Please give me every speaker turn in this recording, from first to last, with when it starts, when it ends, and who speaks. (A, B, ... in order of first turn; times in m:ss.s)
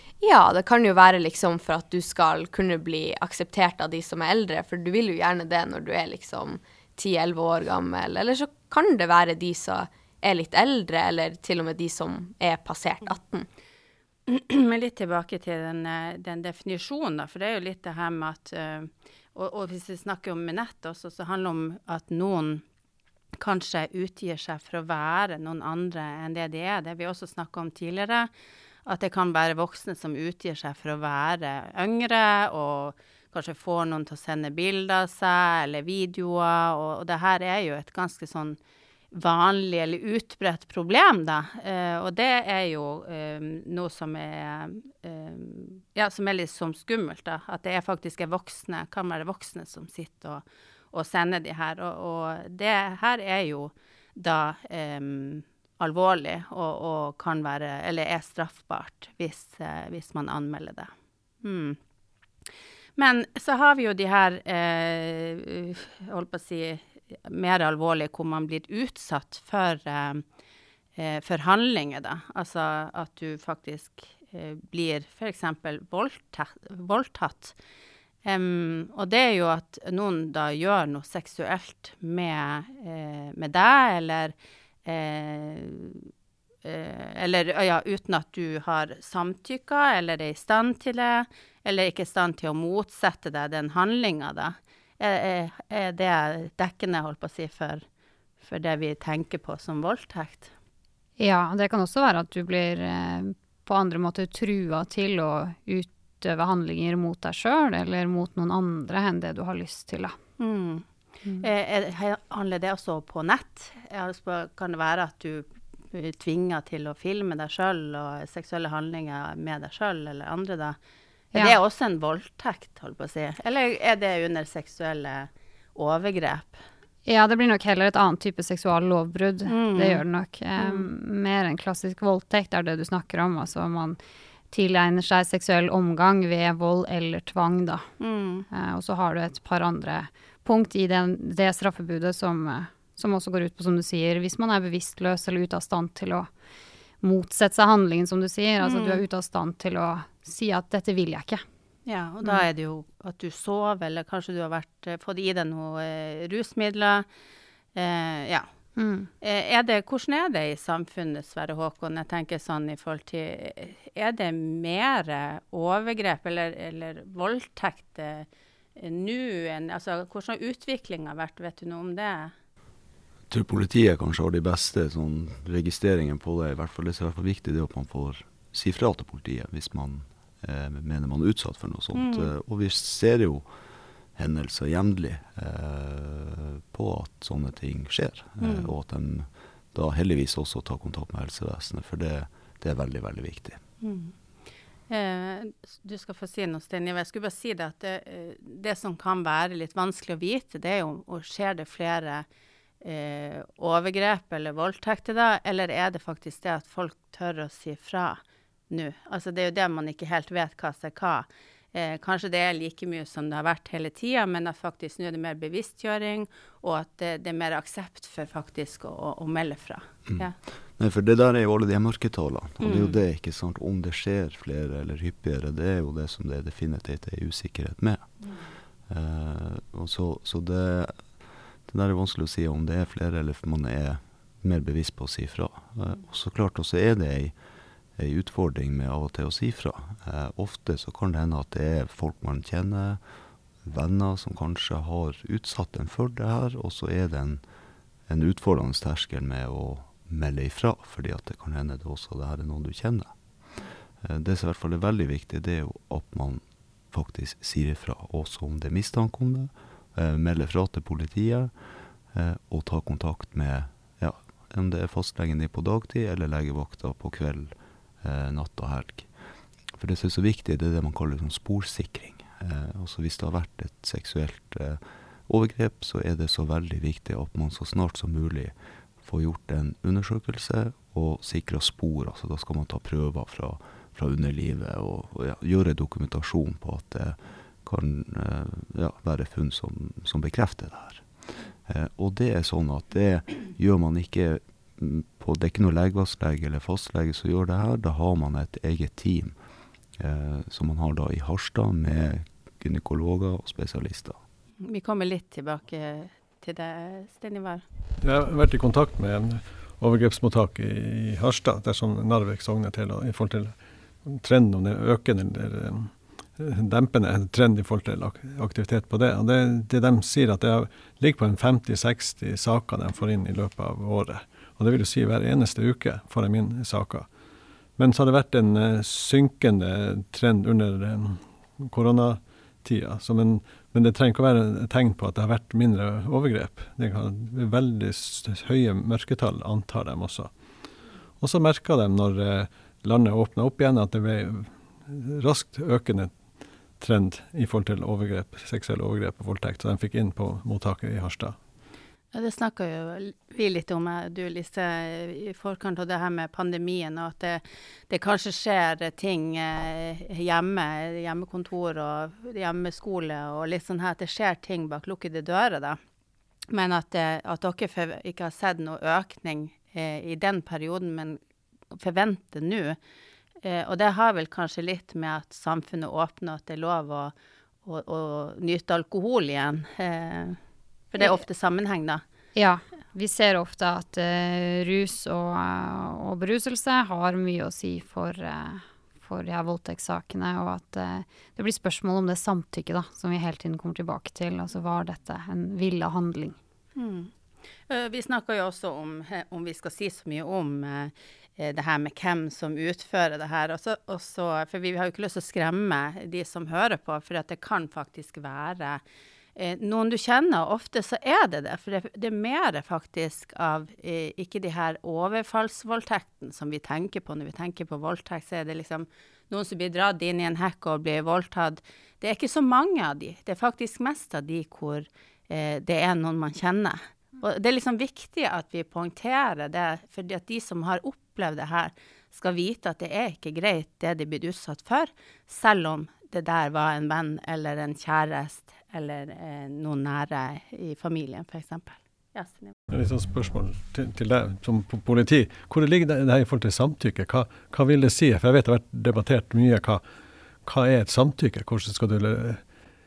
0:00.2-0:13.5 A
0:14.3-0:22.6 B
0:23.4-0:28.3 B
0:28.8-0:38.6 B
0:39.1-1:00.9 B
1:01.4-1:01.8 B
1:03.0-1:10.2 B
1:11.0-1:17.6 B
1:18.2-1:24.3 B
1:24.8-1:26.1 B
1:26.6-1:37.8 B
1:38.4-1:40.5 B
1:41.2-1:50.1 C
1:50.4-1:50.9 B
1:51.4-2:00.8 B
2:01.3-2:06.6 B
2:07.1-2:14.0 C
2:09.5-2:10.0 B
2:10.6-2:10.9 B
2:14.5-2:17.9 C
2:18.0-2:18.4 B
2:18.5-2:26.3 C
2:27.0-2:31.4 C
2:28.6-2:29.0 B
2:31.9-2:37.0 B
2:37.8-2:38.5 B
2:38.8-2:39.1 C
2:39.2-2:52.3 B
2:53.3-3:03.5 D
3:02.0-3:02.3 B
3:04.2-3:13.6 D
3:08.4-3:08.7 B
3:13.8-3:14.1 B
3:14.9-3:22.2 B
3:22.8-3:40.4 B
3:40.1-3:48.1 D
3:42.6-3:43.0 B
3:48.9-3:57.4 D
3:58.0-4:03.0 D
4:03.6-4:07.4 D
4:08.1-4:13.1 D
4:14.0-4:21.5 D
4:22.1-4:29.1 D
4:29.8-4:51.1 D
4:51.6-4:59.4 D
5:00.0-5:04.2 D
5:04.6-5:07.6 B
5:08.0-5:27.1 E
5:27.8-5:40.3 E
5:41.2-5:46.2 E
5:46.8-5:51.4 E
5:52.1-6:05.8 B
6:06.5-6:11.2 B
6:11.7-6:12.8 B
6:13.4-6:17.1 B
6:17.6-6:20.4 B
6:20.9-6:22.0 B
6:22.4-6:36.4 C
6:36.8-6:37.1 B
6:37.7-6:48.8 B
6:49.4-7:22.5 B
7:22.7-7:29.8 E
7:30.4-7:32.4 E